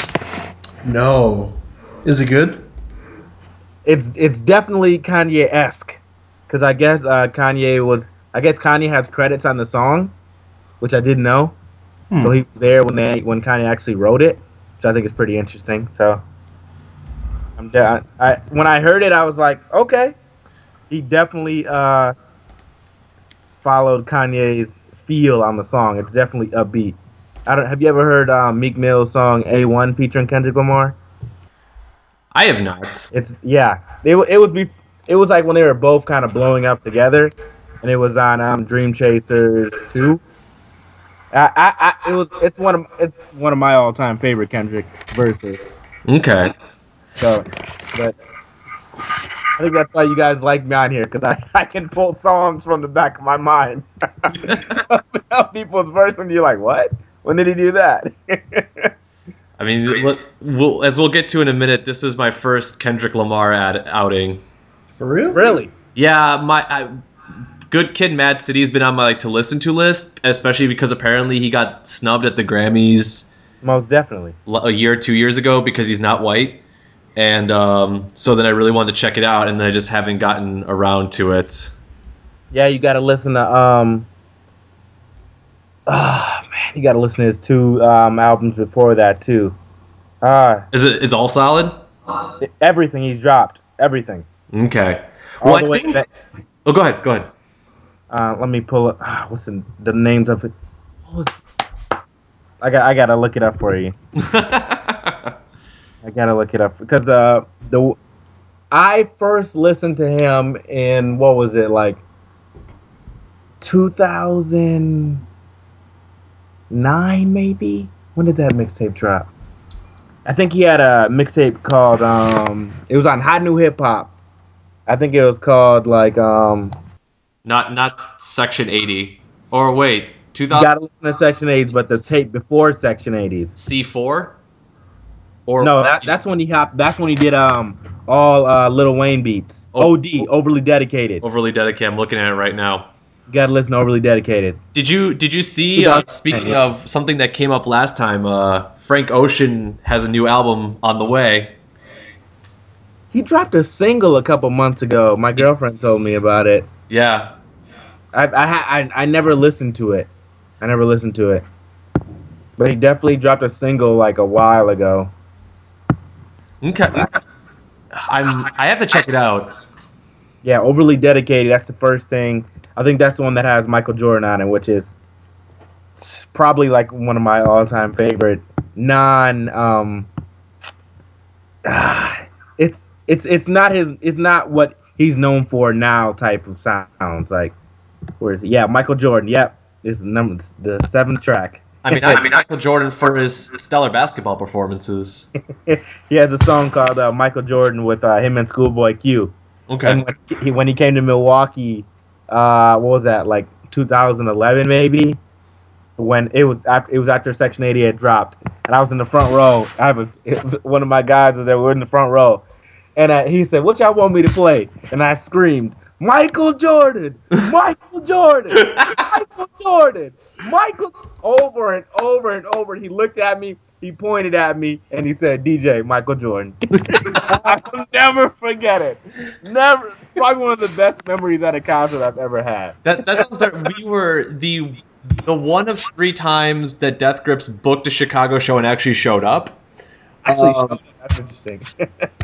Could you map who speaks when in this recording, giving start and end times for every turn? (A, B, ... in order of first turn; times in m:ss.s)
0:00.8-0:02.6 A
0:03.8-0:10.1 B
0:10.8-0:11.6 B
0:12.2-0:16.2 B
0:17.6-0:20.2 B
0:20.9-0:22.1 B
0:23.6-0:31.0 B
0:32.3-0:33.1 C
0:33.1-0:40.2 B
0:41.3-0:45.6 B
0:46.1-0:46.5 C
0:47.2-0:48.2 B
0:49.6-0:58.9 B
0:59.6-1:04.4 C
1:05.0-1:05.6 A
1:05.3-1:05.7 B
1:06.0-1:06.9 C
1:07.7-1:13.3 C
1:13.6-1:14.4 B
1:14.5-1:16.6 C
1:17.2-1:21.8 C
1:22.5-1:24.1 B
1:25.9-1:29.6 B
1:30.2-1:30.7 B
1:30.7-1:31.7 C
1:32.4-1:34.3 B
1:34.5-1:36.0 C
1:35.4-1:36.1 B
1:36.7-1:37.3 C
1:38.1-1:40.5 B
1:41.1-1:41.4 B
1:42.6-1:44.0 B
1:44.2-1:45.3 C
1:46.0-1:48.0 B
1:48.7-1:52.0 B
1:53.6-1:55.2 B
1:56.7-1:59.3 B
2:00.3-2:04.1 B
2:04.9-2:06.7 B
2:07.5-2:10.8 C
2:10.5-2:13.6 B
2:13.6-2:14.4 C
2:15.5-2:16.1 C
2:15.6-2:21.2 B
2:21.2-2:22.9 C
2:23.3-2:24.6 B
2:24.7-2:31.5 C
2:25.8-2:26.6 B
2:33.1-2:36.7 B
2:36.9-2:37.3 C
2:38.1-2:40.1 B
2:40.6-2:41.4 B
2:42.6-2:45.1 B
2:46.6-2:47.2 C
2:47.9-2:49.5 C
2:50.4-2:54.9 B
2:56.0-3:00.1 B
3:01.7-3:07.6 B
3:08.2-3:12.4 B
3:11.8-3:15.3 C
3:15.7-3:25.2 B
3:19.7-3:20.0 C
3:26.0-3:32.4 B
3:33.0-3:52.8 B
3:52.8-3:59.6 C
4:00.3-4:02.1 B
4:00.3-4:00.8 C